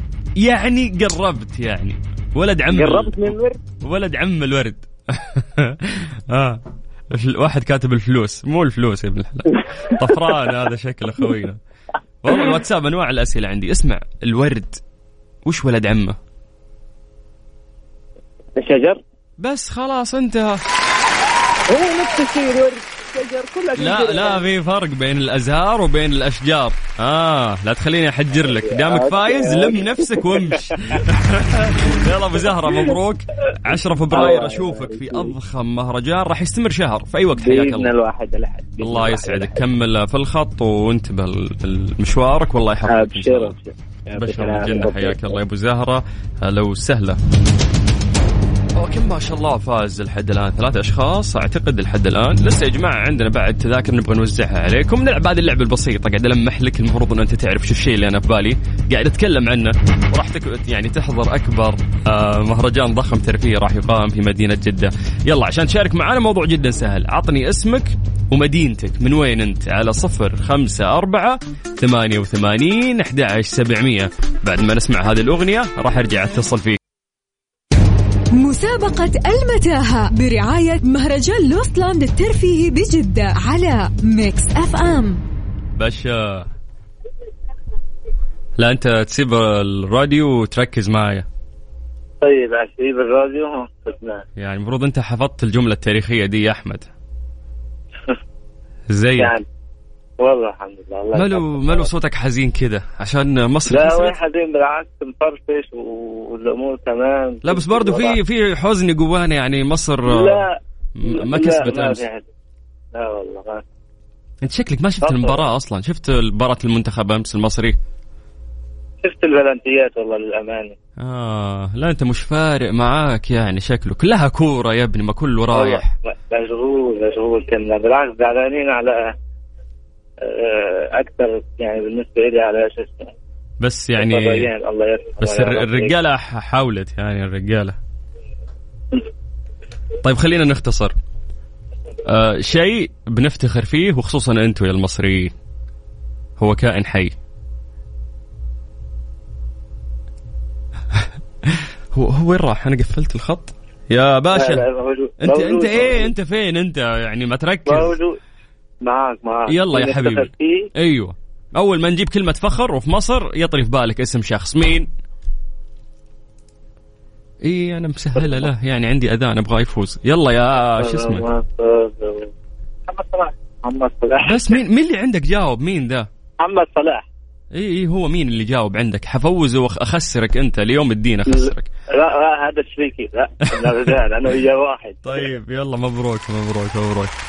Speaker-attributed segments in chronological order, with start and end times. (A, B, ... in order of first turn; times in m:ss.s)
0:00.4-0:11.6 A
0:12.2-0:14.8 A
0:15.4-0:16.2 A
0:18.6-0:19.0 B
0:19.4-0:20.6 A
0:21.7-0:24.4 B
0:23.8-0:37.9 A
0:28.5-0:30.2 B
0:34.1-0:35.3 B
0:37.4-0:39.5 B
0:38.8-0:43.6 A
0:42.9-0:45.3 B
0:44.2-0:47.2 A
0:48.8-1:16.8 A
1:18.4-1:25.2 C
1:25.8-1:26.5 A
1:28.6-1:31.3 A
1:32.2-1:34.2 B
1:34.4-1:36.9 A
1:38.9-1:39.3 A
1:39.2-1:39.4 B
1:40.2-1:41.9 B
1:41.1-1:44.2 A
1:43.7-1:48.2 B
1:47.4-1:50.4 A
1:50.1-1:50.5 B
1:51.0-1:52.0 A
1:51.0-1:52.3 B
1:52.9-1:53.6 B
1:54.4-1:57.8 A
1:55.0-1:55.5 B
1:59.0-2:00.7 B
2:01.0-2:05.9 A
2:05.5-2:09.1 B
2:10.2-2:13.1 B
2:13.6-2:14.5 A
2:14.0-2:16.0 B
2:15.2-2:17.8 A
2:20.0-2:20.9 A
2:22.0-2:25.3 A
2:26.4-2:27.2 A
2:30.9-2:34.6 A
2:34.3-2:36.1 B
2:35.2-2:38.0 A
2:37.7-2:38.2 B
2:38.8-2:40.7 B
2:39.5-2:44.9 A
2:47.4-2:51.2 A
2:48.2-2:48.5 B
2:50.8-2:52.3 B
2:52.9-2:54.6 B
2:54.2-2:56.1 A
2:56.4-2:57.0 B
2:57.5-3:01.7 A
3:01.3-3:05.3 B
3:03.6-3:03.9 A
3:05.0-3:07.1 A